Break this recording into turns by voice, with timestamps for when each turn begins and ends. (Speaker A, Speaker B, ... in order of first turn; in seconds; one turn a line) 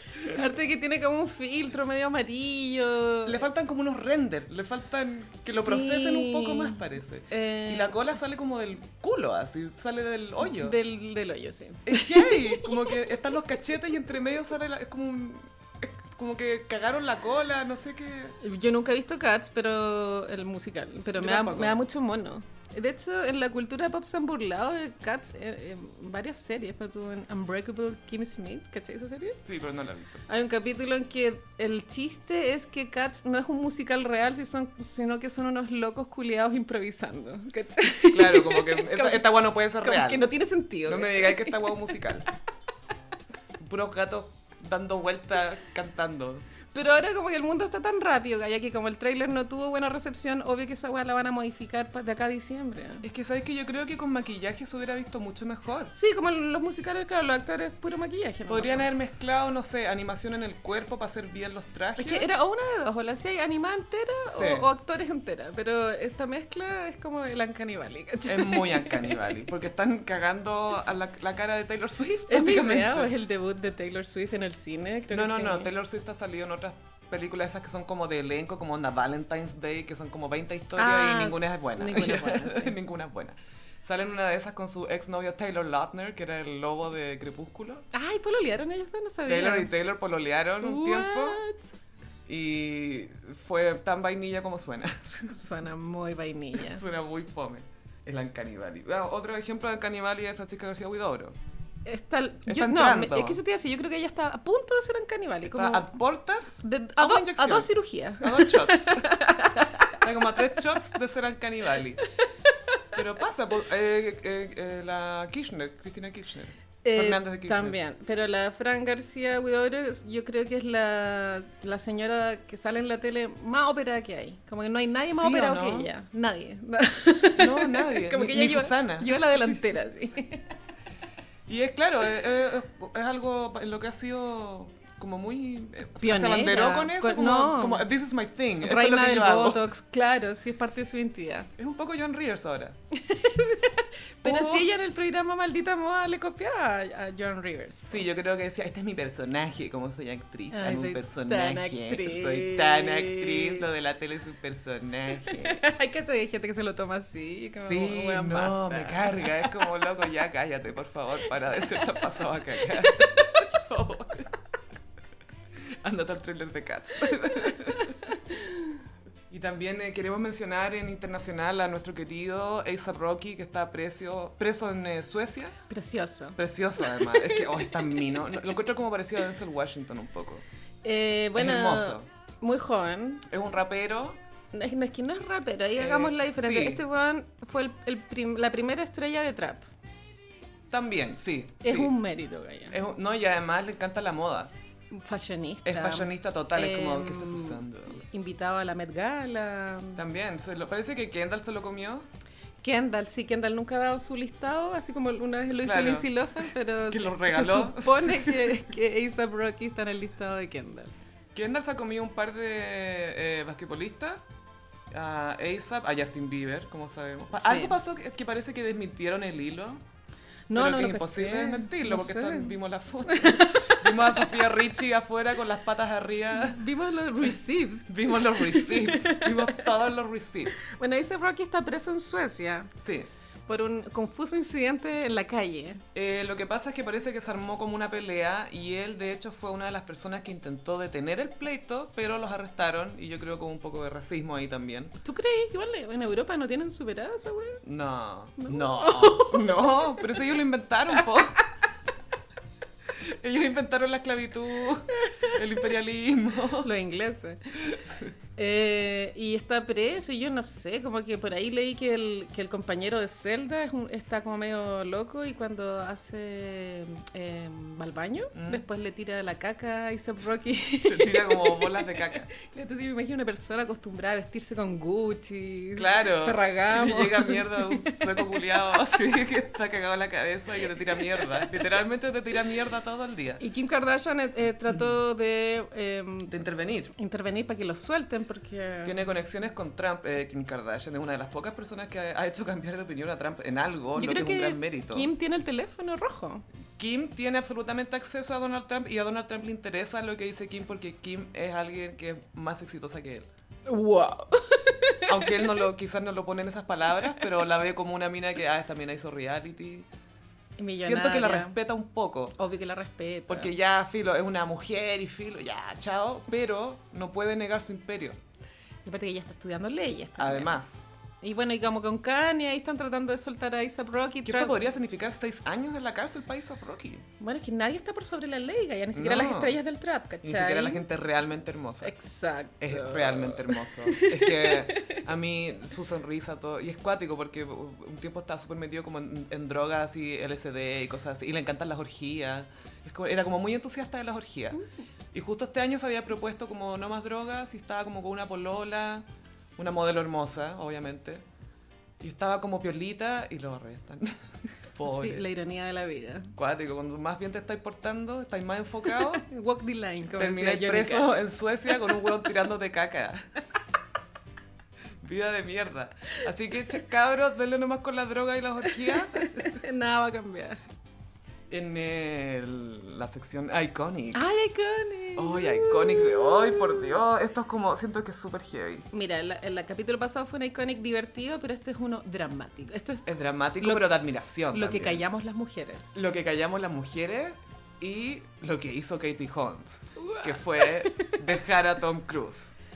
Speaker A: 0.2-3.5
Speaker B: 3.3-10.8
Speaker A: 5.5-8.0
Speaker A: 10.4-13.0
Speaker B: 11.9-18.4
Speaker A: 18.4-29.4
Speaker B: 21.2-21.8
Speaker B: 29.4-30.2
Speaker A: 30.3-42.0
Speaker B: 38.1-40.3
Speaker B: 40.9-42.3
Speaker B: 43.6-46.5
Speaker A: 46.7-53.1
Speaker B: 53.0-55.9
Speaker A: 55.9-58.9
Speaker B: 58.5-62.3
Speaker A: 62.0-69.3
Speaker B: 64.3-64.7
Speaker B: 68.3-73.1
Speaker A: 72.3-75.7
Speaker B: 75.1-87.9
Speaker A: 80.8-82.8
Speaker A: 87.9-89.7
Speaker B: 89.3-91.4
Speaker A: 90.6-91.7
Speaker B: 92.3-95.4
Speaker A: 95.3-96.8
Speaker B: 96.6-101.4
Speaker A: 101.8-106.0
Speaker B: 102.5-103.4
Speaker B: 105.5-109.1
Speaker A: 106.6-110.0
Speaker B: 109.9-112.0
Speaker A: 112.5-112.8
Speaker B: 112.9-117.8
Speaker A: 116.8-130.5
Speaker B: 125.1-125.9
Speaker B: 127.4-129.6
Speaker B: 131.5-139.7
Speaker A: 136.0-137.9
Speaker A: 138.6-141.5
Speaker B: 141.6-142.8
Speaker A: 142.9-148.1
Speaker B: 144.2-144.7
Speaker B: 147.9-155.6
Speaker A: 150.5-153.7
Speaker A: 155.2-159.6
Speaker B: 157.6-164.3
Speaker A: 162.7-163.5
Speaker B: 165.6-168.2
Speaker A: 167.9-168.6
Speaker B: 169.3-175.6
Speaker A: 175.7-178.1
Speaker B: 176.4-180.4
Speaker A: 180.8-183.3
Speaker B: 181.3-182.1
Speaker B: 183.3-184.2
Speaker A: 184.5-189.7
Speaker B: 185.8-186.8
Speaker B: 190.7-191.9
Speaker A: 191.6-192.8
Speaker B: 192.7-194.5
Speaker A: 194.9-200.0
Speaker B: 195.6-198.0
Speaker B: 200.0-202.1
Speaker A: 202.6-210.9
Speaker B: 205.6-206.1
Speaker B: 206.9-208.6
Speaker B: 211.3-214.2
Speaker B: 214.9-219.8
Speaker A: 217.3-217.8
Speaker A: 220.5-224.4
Speaker B: 220.5-226.7
Speaker A: 226.3-229.7
Speaker B: 227.9-230.7
Speaker A: 230.6-232.7
Speaker B: 232.8-233.1
Speaker A: 233.5-235.8
Speaker B: 235.9-244.9
Speaker A: 245.1-247.6
Speaker B: 247.6-251.4
Speaker A: 248.4-250.2
Speaker B: 252.9-256.7
Speaker A: 254.9-255.4
Speaker A: 256.6-257.5
Speaker B: 257.6-258.1
Speaker A: 258.4-278.8
Speaker B: 268.3-268.6
Speaker B: 270.8-272.3
Speaker B: 275.8-283.4
Speaker A: 281.0-281.4
Speaker A: 283.4-286.3
Speaker B: 286.3-286.9
Speaker A: 286.9-288.9
Speaker B: 288.8-295.1
Speaker A: 294.0-296.4
Speaker B: 296.8-303.3
Speaker A: 303.7-305.6
Speaker B: 305.1-309.9
Speaker A: 310.6-311.6
Speaker B: 310.8-312.4
Speaker A: 312.4-313.5
Speaker B: 313.3-318.2
Speaker A: 318.9-320.6
Speaker B: 320.2-320.9
Speaker A: 321.2-324.7
Speaker B: 324.2-327.1
Speaker A: 327.2-330.8
Speaker B: 328.9-329.6
Speaker B: 330.2-331.9
Speaker A: 331.8-335.0
Speaker B: 332.6-344.6
Speaker B: 345.1-349.1
Speaker B: 349.6-351.2
Speaker B: 352.0-355.3
Speaker A: 354.8-356.3
Speaker B: 356.4-359.2
Speaker A: 359.0-361.2
Speaker B: 360.2-363.3
Speaker B: 365.0-369.6
Speaker A: 368.7-370.6
Speaker B: 371.5-374.2
Speaker A: 374.1-377.0
Speaker B: 375.2-378.9
Speaker A: 378.9-383.9
Speaker B: 383.1-385.0
Speaker A: 384.5-386.0
Speaker B: 385.9-392.6
Speaker A: 390.0-391.2